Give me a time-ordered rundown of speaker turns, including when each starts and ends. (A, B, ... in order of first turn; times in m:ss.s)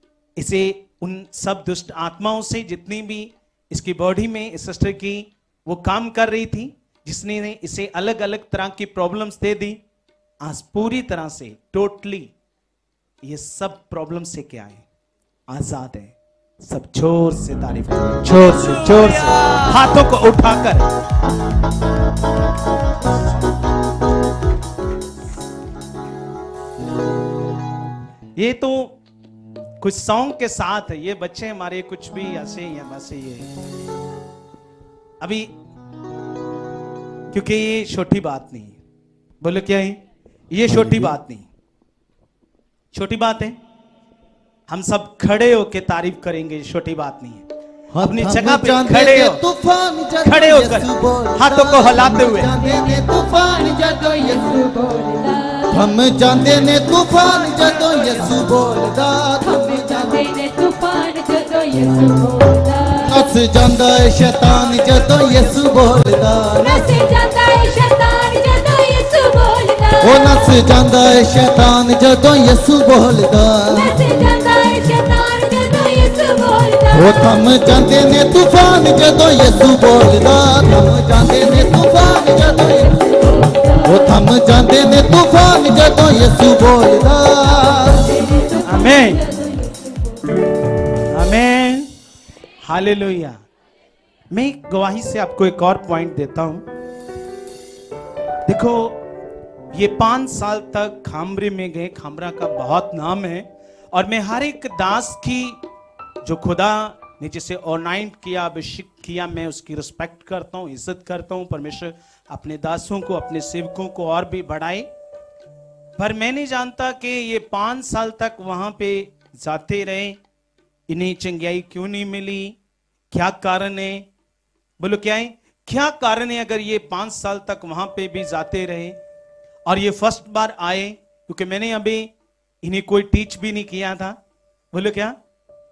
0:00.4-0:09.8 A
0:10.4-0:12.3 A
0:13.2-0:14.8 A
0:15.5-0:20.9 A
0:28.4-0:29.0 A
0:29.8-0:33.5 A
0:35.2-0:35.5 A
0:37.3-0:38.8 A
0:39.4-0:40.0 A
0:40.5-0:41.4 A
0:42.9-0:43.6 A
0:44.7-0:47.4 A
0:47.9-0:54.8 B
0:48.0-0:49.4 A
0:50.2-0:52.5 A
0:54.1-0:55.7 C
0:55.7-1:00.3 B
0:59.6-1:03.0 C
1:03.0-1:07.1 B
1:06.7-1:10.2 C
1:10.0-1:14.0 B
1:13.8-1:17.0 C
1:16.9-1:23.1 B
1:23.8-1:28.2 B
1:28.2-1:28.6 C
1:28.6-1:29.3 A
1:29.3-1:29.9 C
1:31.1-1:31.9 A
1:32.6-1:33.4 A
1:34.3-1:36.6 A
1:38.4-1:39.0 A
1:39.7-1:45.6 A
1:46.2-1:54.9 A
1:56.0-2:00.2 A
2:00.9-2:02.6 A
2:03.1-2:04.0 A
2:04.8-2:09.0 A
2:09.6-2:12.1 A
2:12.6-2:14.2 A
2:14.7-2:15.2 A